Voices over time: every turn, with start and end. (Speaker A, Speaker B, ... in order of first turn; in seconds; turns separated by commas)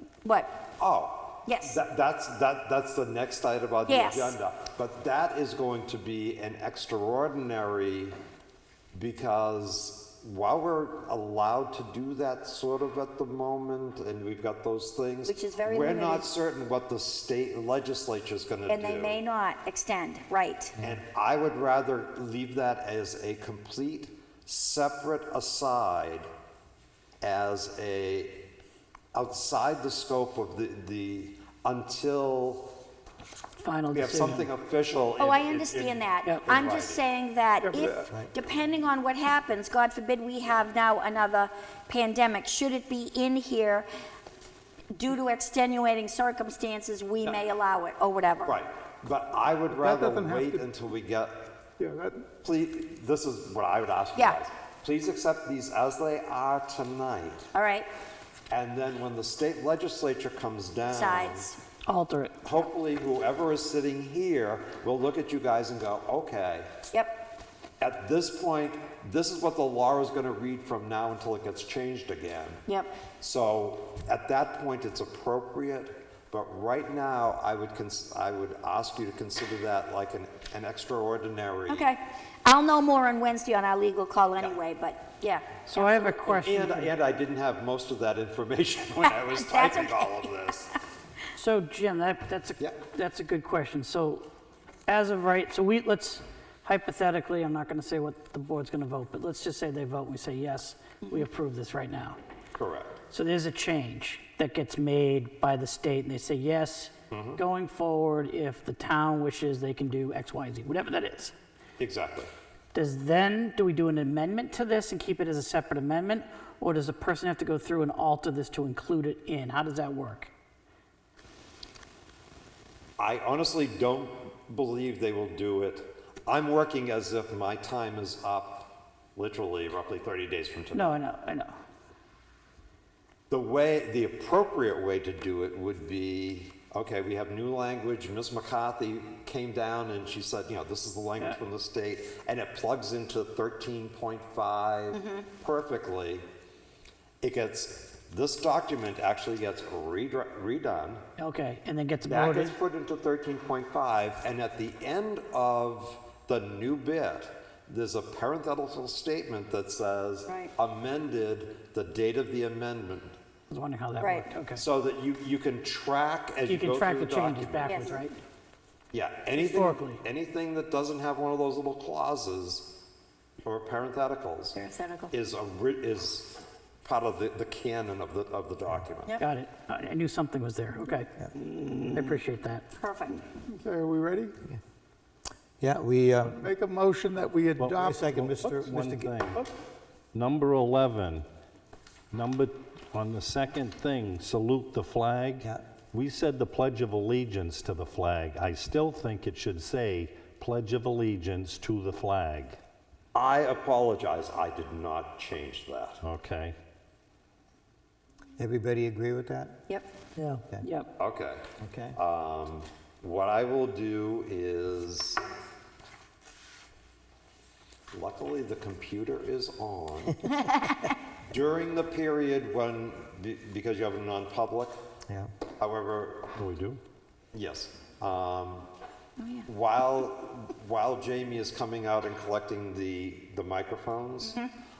Speaker A: 0.2-0.5, Speaker B: 0.8-8.2, Speaker A: 1.5-1.8, Speaker A: 3.9-4.4, Speaker B: 8.9-19.2, Speaker A: 15.2-16.3, Speaker A: 18.7-20.8, Speaker B: 20.8-26.3, Speaker B: 27.2-28.4, Speaker B: 29.1-32.8, Speaker C: 33.6-34.5, Speaker B: 33.9-37.0, Speaker A: 35.2-43.9, Speaker C: 36.2-36.5, Speaker D: 37.6-38.1, Speaker A: 44.9-48.6, Speaker B: 48.4-51.6, Speaker D: 49.7-50.7, Speaker D: 51.8-52.3, Speaker B: 52.4-57.5, Speaker A: 54.2-54.4, Speaker A: 57.5-57.9, Speaker B: 58.5-61.5, Speaker A: 60.9-61.6, Speaker C: 61.9-62.4, Speaker B: 62.4-66.7, Speaker B: 67.8-72.6, Speaker A: 72.7-73.0, Speaker B: 73.2-81.9, Speaker A: 81.7-86.2, Speaker C: 85.7-87.0, Speaker B: 86.2-90.8, Speaker A: 89.1-90.3, Speaker C: 91.3-94.3, Speaker C: 94.9-102.2, Speaker B: 102.6-103.0, Speaker C: 103.1-111.3, Speaker B: 107.1-107.4, Speaker B: 111.8-112.3, Speaker C: 112.7-120.3, Speaker B: 123.0-130.9, Speaker C: 130.7-131.5, Speaker B: 133.3-146.2, Speaker A: 144.9-145.2, Speaker B: 147.2-151.1, Speaker C: 151.2-152.6, Speaker B: 152.1-163.2, Speaker A: 160.3-160.5, Speaker C: 163.5-164.7, Speaker A: 164.0-164.3, Speaker B: 164.6-167.9, Speaker C: 166.4-168.2, Speaker A: 167.6-168.0, Speaker B: 168.9-172.7, Speaker C: 169.4-170.0, Speaker B: 173.4-174.6, Speaker A: 174.5-175.1, Speaker B: 175.1-179.2, Speaker C: 179.2-182.7, Speaker A: 182.8-183.2, Speaker D: 183.4-184.4, Speaker E: 185.6-186.4, Speaker D: 186.2-188.0, Speaker F: 187.6-189.5, Speaker E: 187.8-189.2, Speaker F: 190.1-191.3, Speaker F: 192.1-202.6, Speaker B: 203.1-206.0, Speaker F: 206.0-206.6, Speaker E: 208.4-209.6, Speaker C: 210.2-210.9, Speaker B: 211.0-215.2, Speaker E: 211.6-212.0, Speaker B: 217.9-220.3, Speaker B: 221.3-224.8, Speaker B: 225.6-226.3, Speaker F: 226.3-226.8, Speaker B: 227.3-228.7, Speaker A: 229.2-229.5, Speaker B: 229.5-234.4, Speaker A: 234.2-234.5